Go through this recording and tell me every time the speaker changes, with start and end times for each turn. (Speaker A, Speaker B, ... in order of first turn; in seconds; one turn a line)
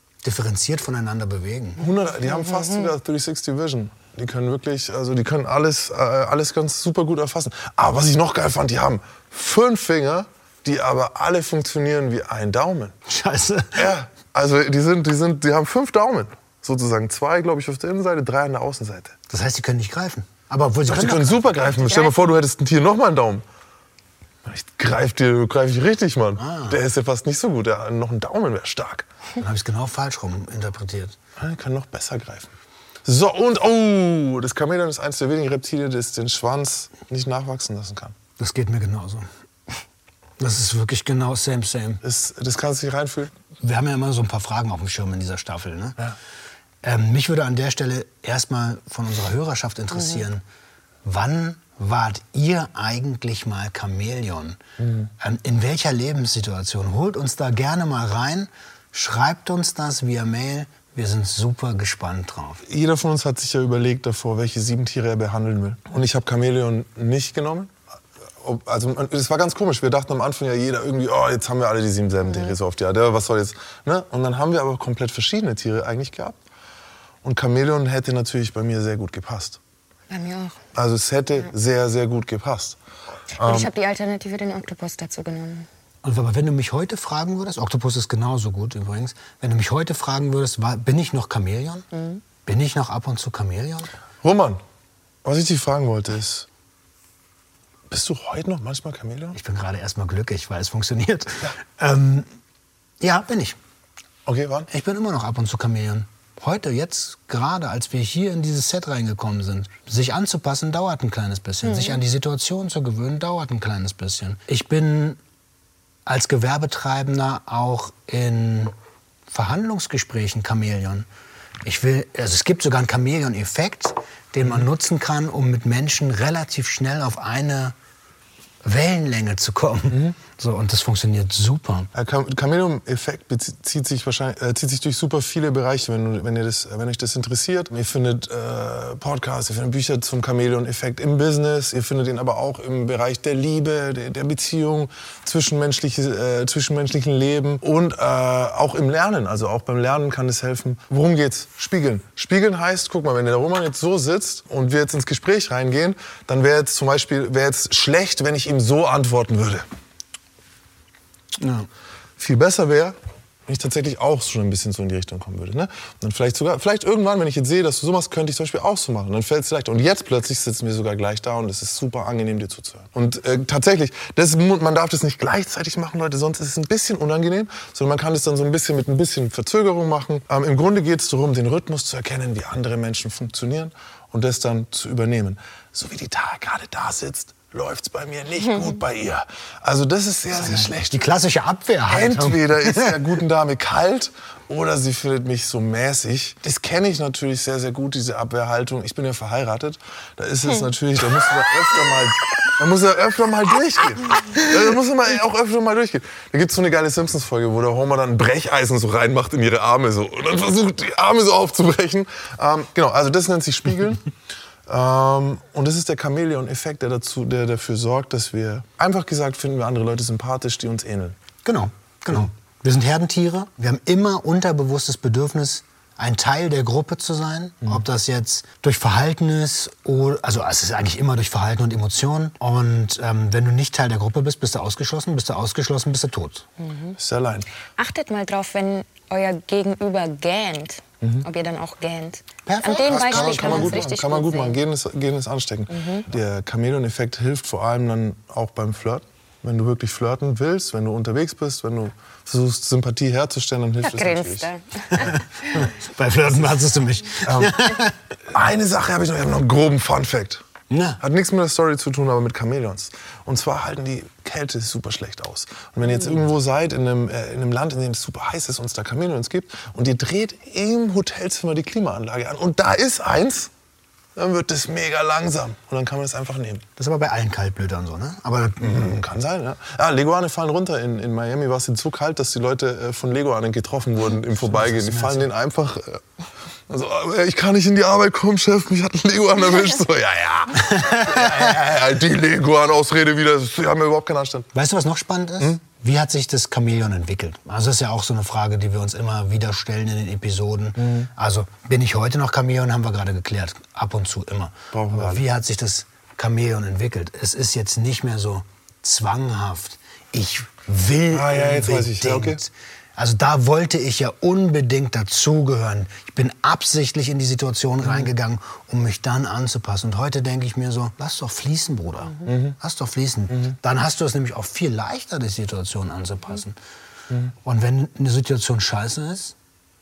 Speaker A: 0.2-1.8
Speaker B: 1.8-12.9
Speaker A: 13.1-13.9
Speaker B: 13.8-19.1
Speaker A: 19.3-21.4
Speaker B: 20.9-23.4
Speaker C: 21.7-22.2
Speaker B: 24.4-29.1
Speaker A: 26.4-26.8
Speaker A: 29.4-31.2
Speaker B: 31.4-32.5
Speaker B: 33.0-38.1
Speaker A: 38.4-39.3
Speaker A: 40.4-42.0
Speaker B: 42.0-43.3
Speaker A: 43.6-46.0
Speaker A: 46.8-50.4
Speaker A: 51.0-54.6
Speaker B: 54.8-55.1
Speaker A: 55.2-62.6
Speaker B: 62.7-67.7
Speaker B: 68.4-76.4
Speaker C: 72.2-72.5
Speaker B: 77.2-79.6
Speaker C: 80.1-80.6
Speaker B: 80.8-82.8
Speaker B: 83.4-83.7
Speaker C: 83.4-85.7
Speaker A: 86.0-91.9
Speaker C: 91.9-92.2
Speaker A: 92.5-93.9
Speaker B: 94.2-94.6
Speaker B: 95.2-96.5
Speaker B: 97.9-99.4
Speaker A: 99.3-102.3
Speaker A: 103.0-103.6
Speaker B: 104.3-104.7
Speaker A: 104.7-115.2
Speaker C: 111.6-112.0
Speaker A: 116.1-118.7
Speaker A: 119.3-121.1
Speaker A: 121.6-127.8
Speaker A: 128.6-131.9
Speaker B: 131.9-159.6
Speaker A: 161.4-161.7
Speaker B: 162.2-163.0
Speaker B: 163.5-191.1
Speaker A: 190.4-193.1
Speaker B: 191.9-214.1
Speaker B: 214.7-221.2
Speaker A: 221.4-236.5
Speaker C: 236.6-237.0
Speaker B: 237.0-237.5
Speaker C: 237.8-244.6
Speaker A: 242.5-243.8
Speaker B: 242.5-254.5
Speaker C: 245.7-246.1
Speaker C: 253.8-255.7
Speaker A: 255.0-258.0
Speaker B: 257.3-257.7
Speaker B: 258.3-260.4
Speaker A: 260.7-261.0
Speaker B: 261.0-273.5
Speaker B: 274.2-276.6
Speaker A: 276.8-278.9
Speaker B: 278.6-286.0
Speaker A: 284.4-285.3
Speaker B: 286.7-294.5
Speaker A: 290.6-291.6
Speaker A: 294.5-326.6
Speaker B: 300.8-301.1
Speaker B: 304.7-305.2
Speaker B: 311.1-312.4
Speaker B: 322.3-322.6
Speaker A: 327.4-329.4